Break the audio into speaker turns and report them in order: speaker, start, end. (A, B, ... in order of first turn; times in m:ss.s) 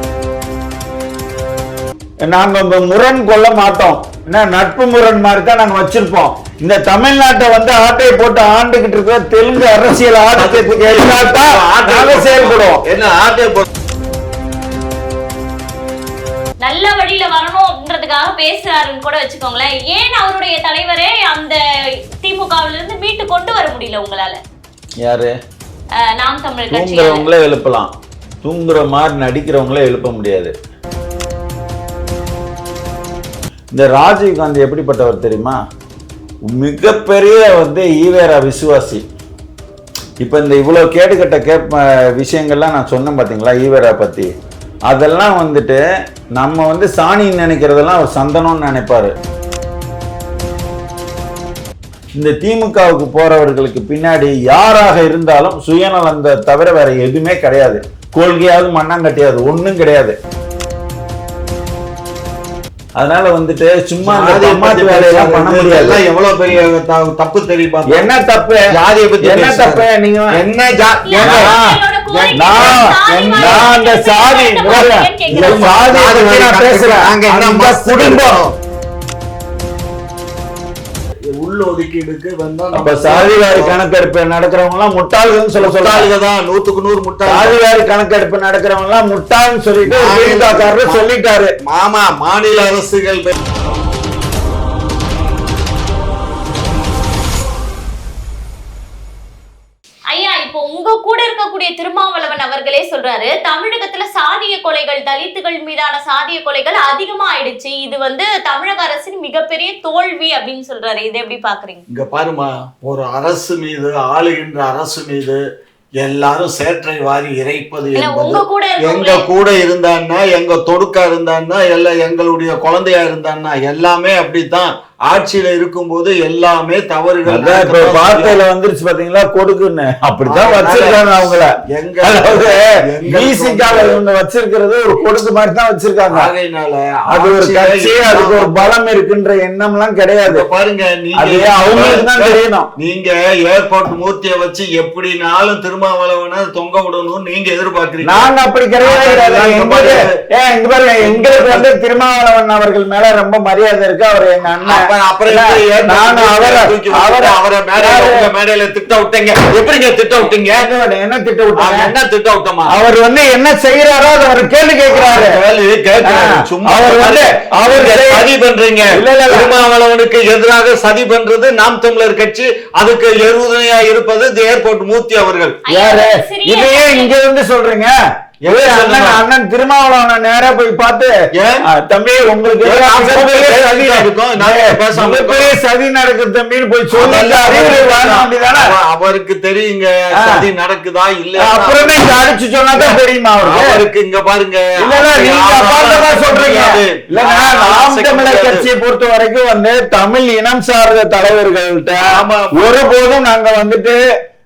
0:02.2-0:12.8 A
0:10.4-0:13.7 B
0:16.6-0:21.6 C
0:22.2-0:24.4 C
0:25.0-0:25.3 A
0:26.0-0:27.3 C
0:26.7-0:27.9 A
0:28.4-0:30.6 A
0:33.7-0:35.6 A
0:36.5-0:39.0 A
0:40.2-0:44.3 A
0:44.9-0:45.8 A
0:46.4-0:49.1 A
0:52.2-1:00.2 A
1:03.0-1:06.0 A
1:04.0-1:08.0 B
1:07.9-1:08.7 A
1:08.7-1:11.6 B
1:09.2-1:10.4 A
1:11.1-1:15.8 C
1:11.2-1:11.8 A
1:12.1-1:13.7 B
1:12.3-1:18.4 A
1:15.3-1:18.5 B
1:21.3-1:23.8 B
1:22.7-1:26.1 A
1:25.6-1:27.6 B
1:27.3-1:31.6 A
1:29.9-1:31.0 B
1:31.6-1:33.4 B
1:40.1-1:51.8 C
1:51.9-1:55.4 B
1:56.0-2:08.4 B
1:58.0-1:59.3 C
2:07.3-2:11.5 A
2:10.3-2:14.0 B
2:12.0-2:16.3 A
2:16.1-2:18.5 B
2:17.1-2:20.5 A
2:20.3-2:28.3 B
2:21.1-2:22.7 A
2:28.0-2:38.3 A
2:28.8-2:30.2 B
2:31.0-2:31.7 B
2:34.7-2:40.7 B
2:40.3-2:41.9 A
2:41.6-2:42.7 B
2:42.7-2:45.4 A
2:44.9-2:55.6 B
2:46.0-2:48.3 A
2:49.0-2:49.5 A
2:55.7-2:57.2 C
2:55.7-2:58.0 A
2:58.4-2:59.2 B
2:58.5-3:01.1 A
3:01.3-3:01.7 B
3:01.7-3:08.7 A
3:02.6-3:05.5 B
3:06.9-3:11.9 B
3:10.2-3:10.5 A
3:11.4-3:13.8 A
3:12.7-3:18.6 B
3:14.8-3:24.0 A
3:22.0-3:22.7 B